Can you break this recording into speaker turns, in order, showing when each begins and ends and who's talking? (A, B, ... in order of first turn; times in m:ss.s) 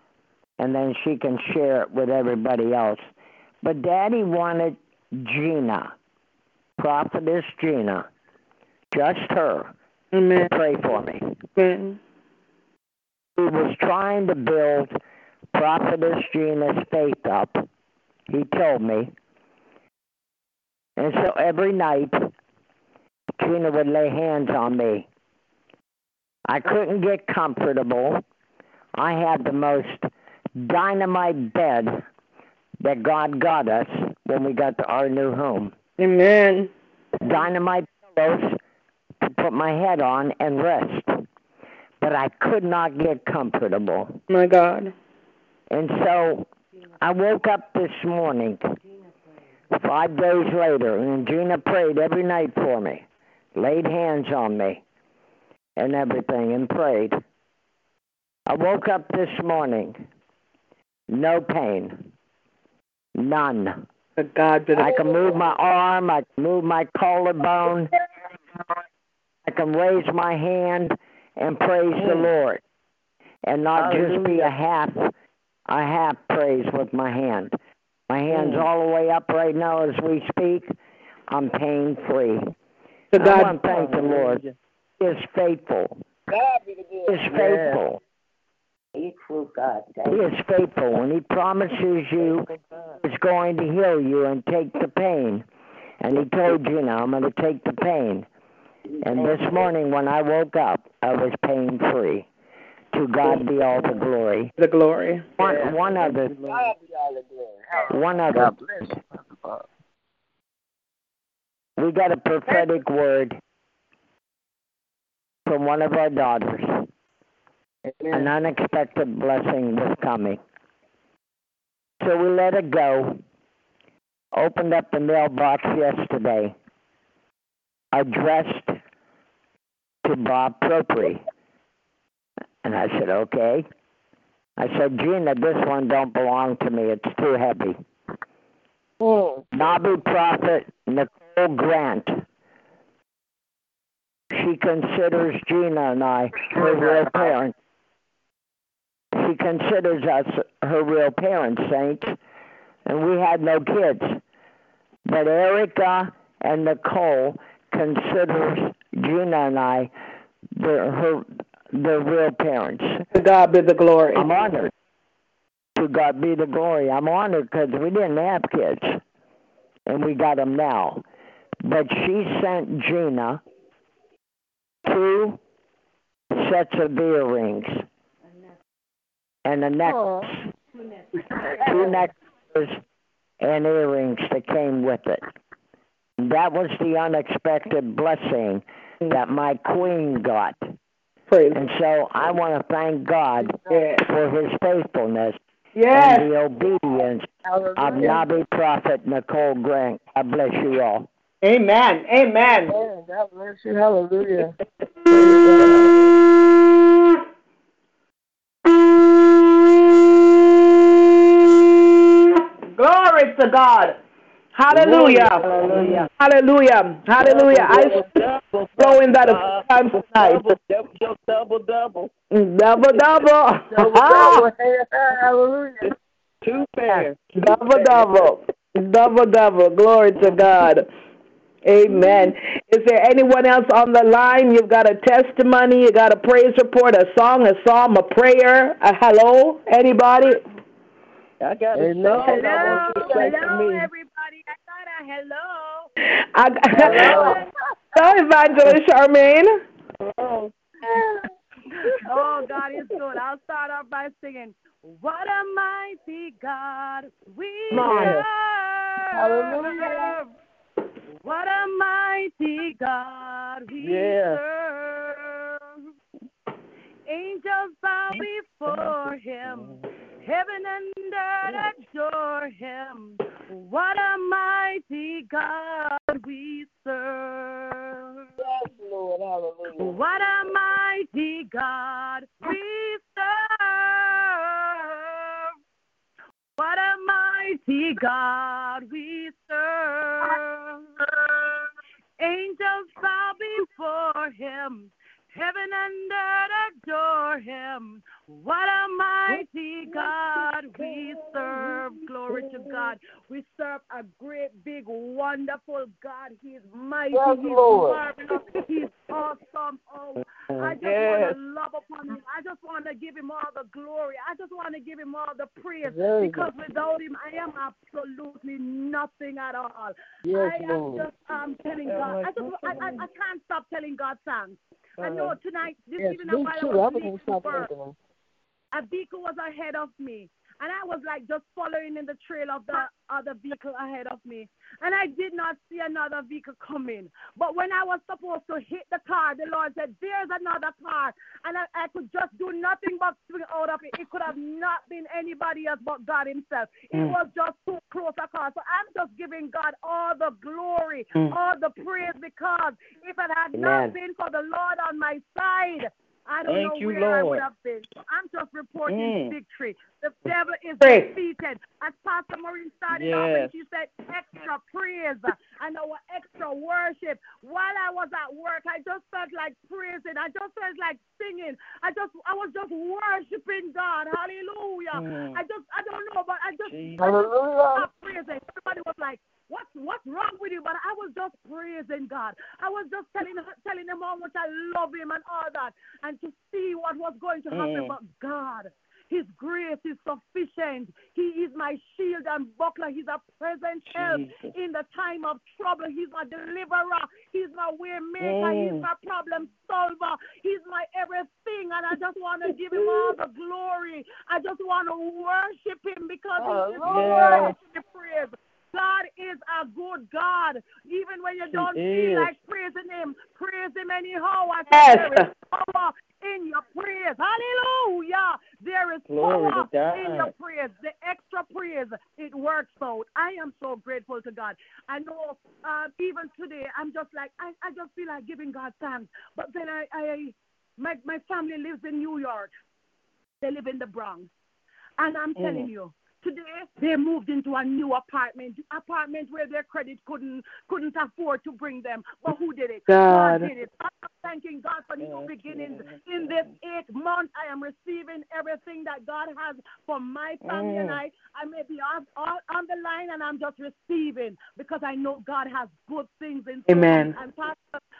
0:00.6-0:03.1 A
0:03.6-0:05.9 A
0:06.8-0:08.1 A
0:08.9-0:09.7 A
0:10.1-0:10.5 B
0:10.5-0:11.3 A
0:11.6-0:12.0 B
0:13.4-0:15.0 A
0:15.5-0:17.6 A
0:18.3-0:19.1 A
0:21.0-0:22.3 A
0:23.4-0:25.1 A
0:26.5-0:28.2 A
0:28.9-0:32.0 A
0:32.8-0:35.7 A
0:36.0-0:36.7 B
0:37.2-0:38.6 A
0:39.2-0:41.2 A
0:42.0-0:44.2 A
0:44.3-0:44.9 B
0:45.7-0:46.5 A
0:47.0-0:48.6 A
0:49.7-0:54.8 A
0:55.8-0:57.2 A
0:58.5-1:00.0 A
1:01.1-1:02.1 A
1:03.2-1:03.8 A
1:04.2-1:05.0 B
1:04.7-1:07.9 A
1:09.4-1:12.6 A
1:13.4-1:15.1 A
1:13.8-1:14.4 C
1:15.7-1:17.6 A
1:18.1-1:20.7 A
1:21.3-1:22.5 A
1:23.1-1:23.6 B
1:23.1-1:24.4 A
1:23.7-1:24.4 C
1:25.0-1:26.0 A
1:26.3-1:27.3 D
1:27.1-1:28.0 A
1:30.1-1:32.5 A
1:33.0-1:35.4 A
1:36.0-1:38.3 A
1:39.0-1:42.3 A
1:42.9-1:44.5 A
1:44.6-1:45.2 B
1:45.4-1:46.4 A
1:46.4-1:49.6 D
1:47.9-1:48.6 A
1:51.8-1:53.4 A
1:55.4-1:56.9 A
1:57.8-1:58.3 D
1:58.1-2:00.4 A
2:02.0-2:03.2 A
2:04.3-2:06.5 A
2:07.9-2:08.8 A
2:10.0-2:11.2 A
2:12.6-2:13.6 A
2:14.6-2:17.8 A
2:19.0-2:19.4 D
2:19.5-2:22.2 A
2:24.3-2:27.5 A
2:29.1-2:32.2 A
2:32.8-2:34.2 A
2:35.0-2:39.9 A
2:40.6-2:43.0 A
2:43.1-2:44.2 B
2:44.1-2:44.7 A
2:45.8-2:49.0 A
2:49.9-2:51.0 A
2:51.6-2:53.4 A
2:54.8-2:55.4 A
2:56.3-2:57.8 A
2:59.4-3:00.3 A
2:59.8-3:00.4 D
3:01.4-3:02.8 A
3:01.5-3:01.9 D
3:03.4-3:05.2 A
3:06.2-3:10.7 A
3:11.3-3:11.6 B
3:11.5-3:15.4 A
3:13.4-3:13.9 D
3:13.7-3:14.0 B
3:15.8-3:16.3 B
3:15.9-3:21.1 A
3:17.4-3:18.2 D
3:21.4-3:22.7 B
3:22.7-3:24.5 D
3:25.1-3:25.6 D
3:32.7-3:34.0 B
3:34.5-3:35.5 B
3:34.7-3:36.0 A
3:35.6-3:36.0 C
3:36.2-3:38.0 B
3:37.3-3:42.1 C
3:38.8-3:40.5 B
3:42.3-3:44.5 B
3:43.7-3:45.9 D
3:46.4-3:47.2 C
3:47.3-3:50.8 B
3:47.7-3:48.1 C
3:51.6-4:00.4 B
4:01.4-4:03.6 C
4:01.7-4:03.9 D
4:02.2-4:05.9 E
4:06.3-4:07.3 B
4:06.7-4:07.5 D
4:06.8-4:07.4 E
4:06.9-4:07.3 C
4:07.9-4:09.5 B
4:10.0-4:10.5 C
4:10.8-4:11.2 D
4:11.9-4:20.3 E
4:17.9-4:18.2 C
4:19.1-4:20.2 D
4:21.2-4:25.6 E
4:23.8-4:24.4 C
4:27.0-4:38.2 E
4:38.4-4:40.0 D
4:39.7-4:45.5 E
4:46.6-4:50.8 E
4:52.2-5:27.7 E
5:07.1-5:08.0 D
5:10.8-5:11.4 C
5:15.8-5:16.5 D
5:20.2-5:21.1 D
5:21.8-5:23.0 C
5:25.0-5:25.4 C
5:26.0-5:28.0 D
5:28.7-7:12.5 E
5:53.5-5:53.9 A
5:56.5-5:57.4 C
5:58.9-5:59.3 C
6:00.8-6:01.1 B
6:02.9-6:03.6 C
6:14.9-6:15.4 C
6:16.7-6:17.0 C
6:17.0-6:17.9 D
6:27.5-6:27.9 C
6:33.9-6:34.4 C
6:38.2-6:38.8 C
6:42.8-6:43.1 C
6:46.4-6:47.5 D
6:46.8-6:47.5 C
6:51.5-6:52.3 C
6:54.7-6:55.3 B
6:59.1-7:00.3 C
7:13.4-7:14.3 E
7:15.0-7:37.6 E
7:22.9-7:23.5 B
7:25.0-7:25.8 C
7:30.4-7:31.0 C
7:36.7-7:37.2 B